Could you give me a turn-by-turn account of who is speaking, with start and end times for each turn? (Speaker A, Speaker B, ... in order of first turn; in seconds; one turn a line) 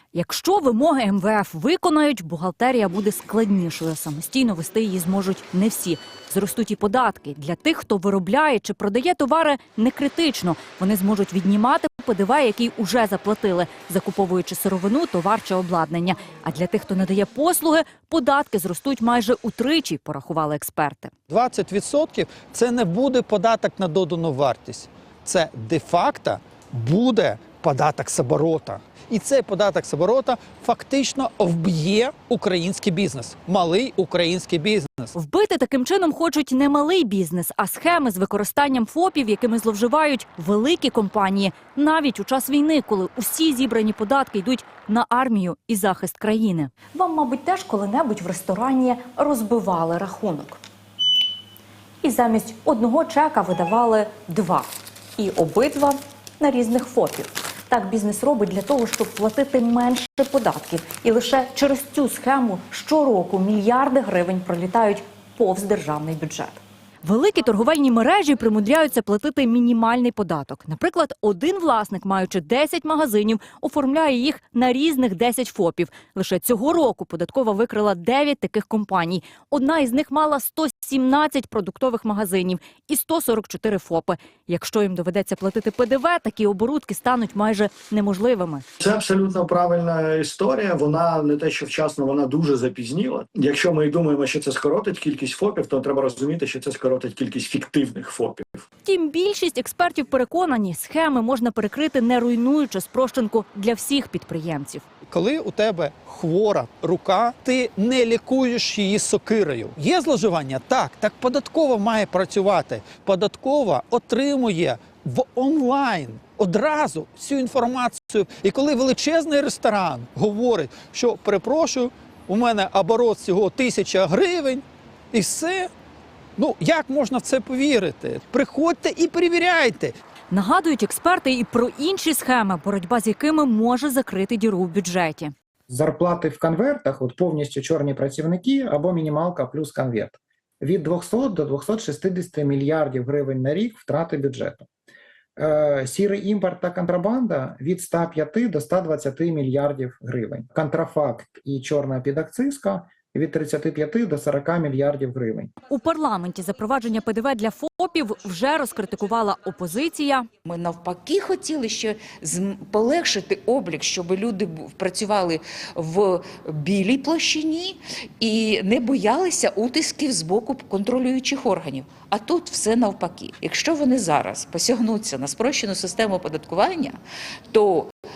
Speaker A: 0.1-21.1
Speaker B: 21.3-35.1
Speaker A: 35.1-50.6
Speaker A: 52.0-88.7
Speaker C: 88.8-98.6
Speaker A: 98.8-104.8
Speaker B: 105.1-125.7
Speaker B: 126.4-130.0
Speaker A: 130.3-135.3
Speaker D: 135.7-144.7
Speaker D: 145.4-155.5
Speaker A: 155.7-160.3
Speaker E: 160.4-177.0
Speaker E: 177.5-177.9